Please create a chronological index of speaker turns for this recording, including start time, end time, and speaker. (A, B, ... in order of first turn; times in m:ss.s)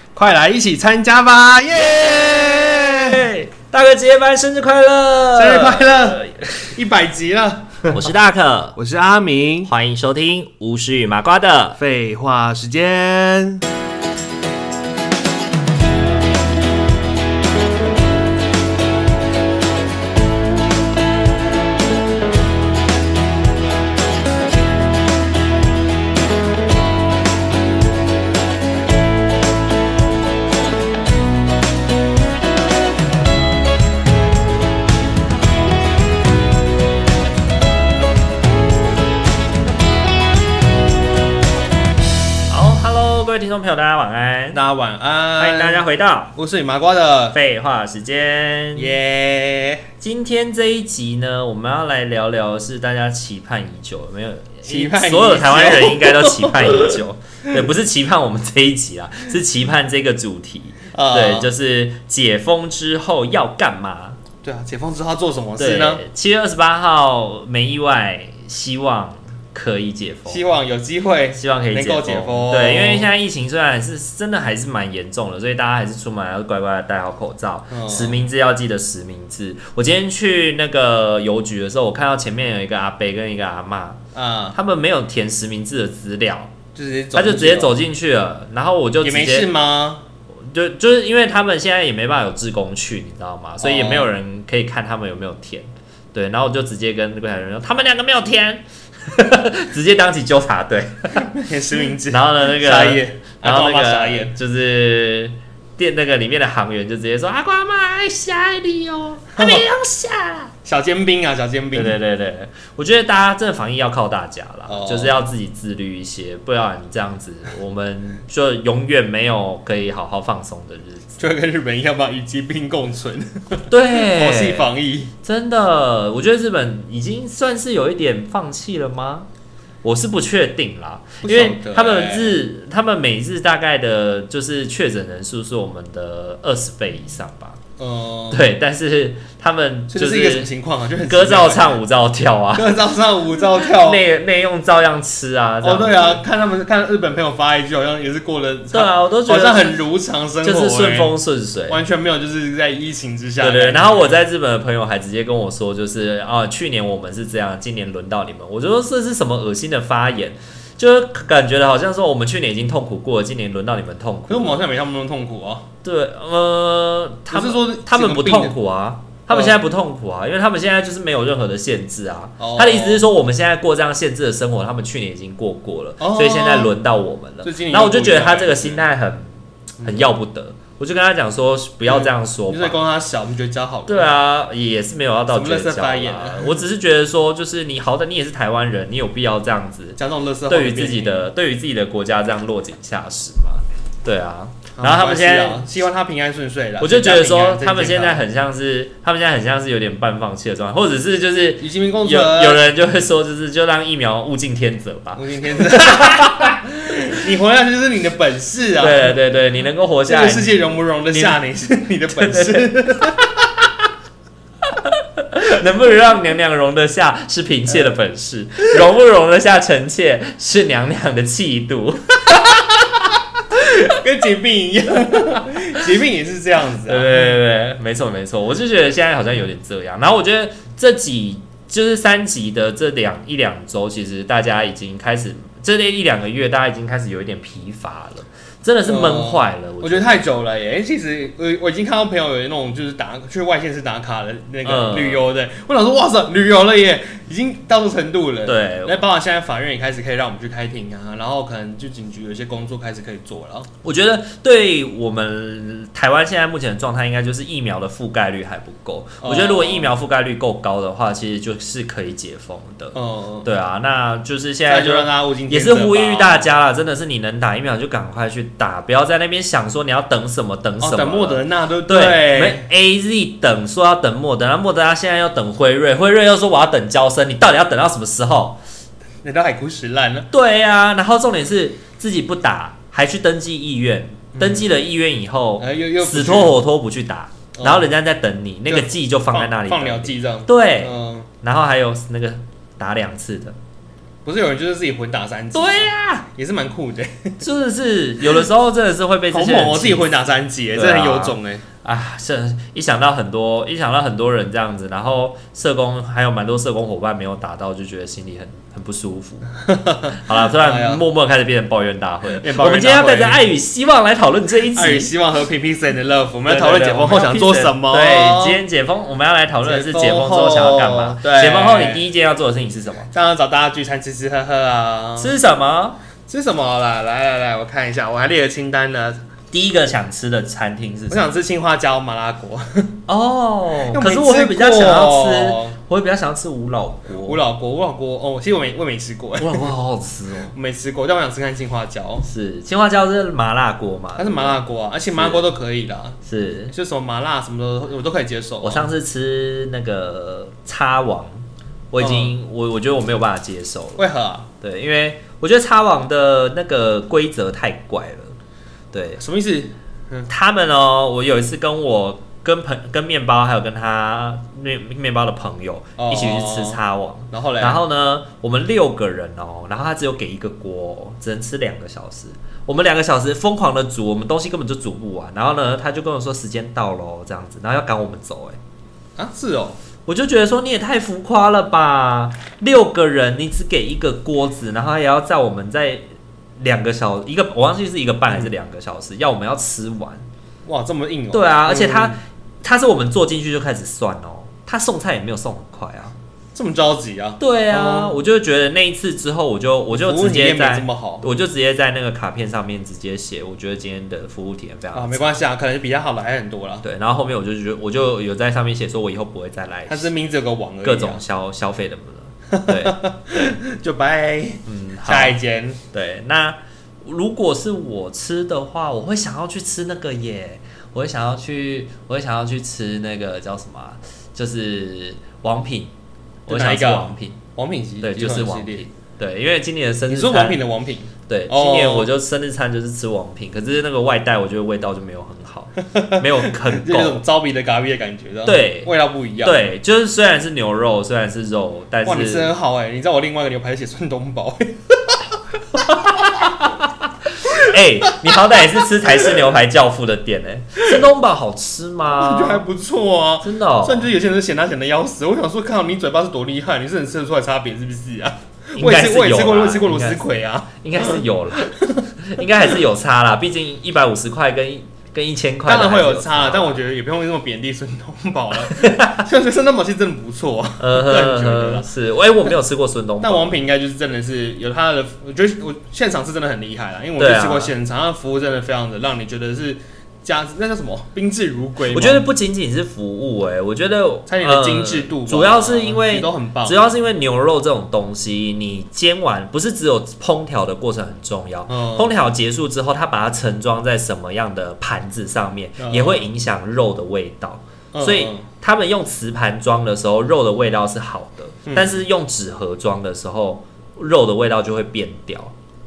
0:00.2-0:03.3 A
0:02.0-0:06.7 B
0:05.4-0:08.0 A
0:07.9-0:08.8 B
0:08.8-0:09.7 A
0:09.7-0:11.8 B
0:11.8-0:13.6 A
0:42.5-0:44.6 B
0:44.5-0:45.8 A
0:45.4-0:46.3 B
0:46.4-0:47.4 A
0:47.3-0:49.0 B
0:48.8-0:49.9 A
0:50.0-1:04.2 B
0:54.6-0:57.0 A
1:00.9-1:01.5 A
1:04.4-1:06.0 A
1:05.6-1:10.4 B
1:10.3-1:13.1 A
1:11.3-1:24.0 B
1:17.7-1:18.3 A
1:24.2-1:24.6 A
1:24.5-1:26.6 B
1:26.8-1:27.8 A
1:27.2-1:29.5 B
1:29.0-1:30.0 A
1:30.3-1:41.3 B
1:33.6-1:34.1 A
1:41.2-1:44.3 A
1:42.1-1:50.5 B
1:49.4-1:49.6 A
1:50.6-1:52.0 A
1:51.7-2:01.2 B
1:54.7-1:55.2 A
2:01.2-2:05.1 A
2:03.7-2:04.7 B
2:05.2-2:09.3 B
2:09.8-2:17.6 B
2:11.2-2:12.4 A
2:17.8-2:18.5 A
2:18.3-2:20.5 B
2:19.9-2:21.8 A
2:21.0-2:22.8 B
2:22.5-2:24.0 A
2:23.6-2:26.2 B
2:25.6-2:31.1 A
2:28.7-2:29.8 B
2:30.4-2:31.8 B
2:31.7-2:34.2 A
2:33.4-2:44.6 B
2:44.3-2:45.7 A
2:45.8-3:02.8 B
2:47.3-2:48.6 A
2:49.3-2:49.6 A
2:52.4-2:53.0 A
2:56.0-2:56.7 A
2:57.4-2:58.8 A
2:59.8-3:00.1 A
3:01.9-3:04.1 A
3:03.9-3:15.7 B
3:05.3-3:06.6 A
3:10.0-3:11.2 A
3:14.8-3:18.2 A
3:16.8-3:26.6 B
3:21.6-3:22.7 A
3:25.2-3:29.2 A
3:28.8-3:30.5 B
3:30.1-3:33.3 A
3:31.1-3:31.4 B
3:32.1-3:33.3 B
3:34.7-3:43.2 B
3:43.5-3:47.2 A
3:46.8-4:00.2 B
3:58.9-4:13.7 A
4:04.6-4:05.2 B
4:08.5-4:09.0 B
4:13.8-4:38.6 B
4:19.2-4:19.9 A
4:23.0-4:23.5 A
4:24.7-4:26.5 A
4:30.8-4:32.7 A
4:39.2-4:40.3 A
4:40.3-4:53.6 B
4:44.4-4:44.7 A
4:45.6-4:46.6 A
4:47.6-4:47.9 A
4:48.7-4:51.3 A
4:54.2-4:57.4 A
4:55.5-4:56.3 B
4:57.4-5:00.1 B
4:59.3-5:01.6 A
5:00.7-5:09.5 B
5:09.6-5:11.0 A
5:10.1-5:15.1 B
5:12.4-5:13.4 A
5:14.7-5:18.6 A
5:16.5-5:23.1 B
5:19.6-5:22.1 A
5:23.1-5:25.3 A
5:25.2-5:26.0 B
5:26.3-5:29.2 A
5:29.5-5:31.4 B
5:31.1-5:33.0 A
5:33.1-5:37.4 B
5:33.9-5:35.8 A
5:37.2-5:39.7 A
5:39.4-5:40.5 B
5:40.5-5:42.2 A
5:42.2-5:44.6 B
5:44.2-5:46.2 A
5:45.1-5:45.5 B
5:46.2-5:46.8 B
5:46.7-5:48.9 A
5:48.6-5:54.0 B
5:52.0-5:52.4 A
5:54.0-5:54.5 A
5:54.6-5:58.4 B
5:58.9-5:59.2 B
5:59.2-6:00.3 A
6:00.3-6:18.6 B
6:06.0-6:06.8 A
6:07.3-6:07.8 A
6:19.2-6:19.8 A
6:20.1-6:26.0 B
6:26.6-6:30.3 B
6:30.6-6:32.2 A
6:31.3-6:36.2 B
6:36.6-6:38.2 A
6:37.4-6:45.4 B
6:40.0-6:41.3 A
6:44.9-6:46.8 A
6:46.8-6:50.1 B
6:49.9-6:51.2 A
6:50.8-6:53.6 B
6:52.5-6:55.8 A
6:54.7-6:55.4 B
6:55.9-7:05.9 B
7:06.5-7:07.4 B
7:06.5-7:08.8 A
7:08.0-7:10.6 B
7:10.1-7:12.1 A
7:11.3-7:17.2 B
7:15.9-7:19.7 A
7:18.5-7:22.5 B
7:22.0-7:26.3 A
7:25.8-7:32.7 B
7:27.4-7:28.4 A
7:29.1-7:29.4 A
7:32.1-7:41.9 A
7:33.4-7:34.1 B
7:38.8-7:40.2 B
7:40.8-7:46.8 B
7:45.6-7:51.9 A
7:48.6-7:49.2 B
7:50.8-7:53.6 B
7:53.2-8:02.3 A
7:57.2-7:57.7 B
8:01.9-8:25.5 B
8:04.3-8:06.9 A
8:11.7-8:12.1 A
8:15.8-8:16.3 A
8:17.9-8:18.4 A
8:21.7-8:22.0 A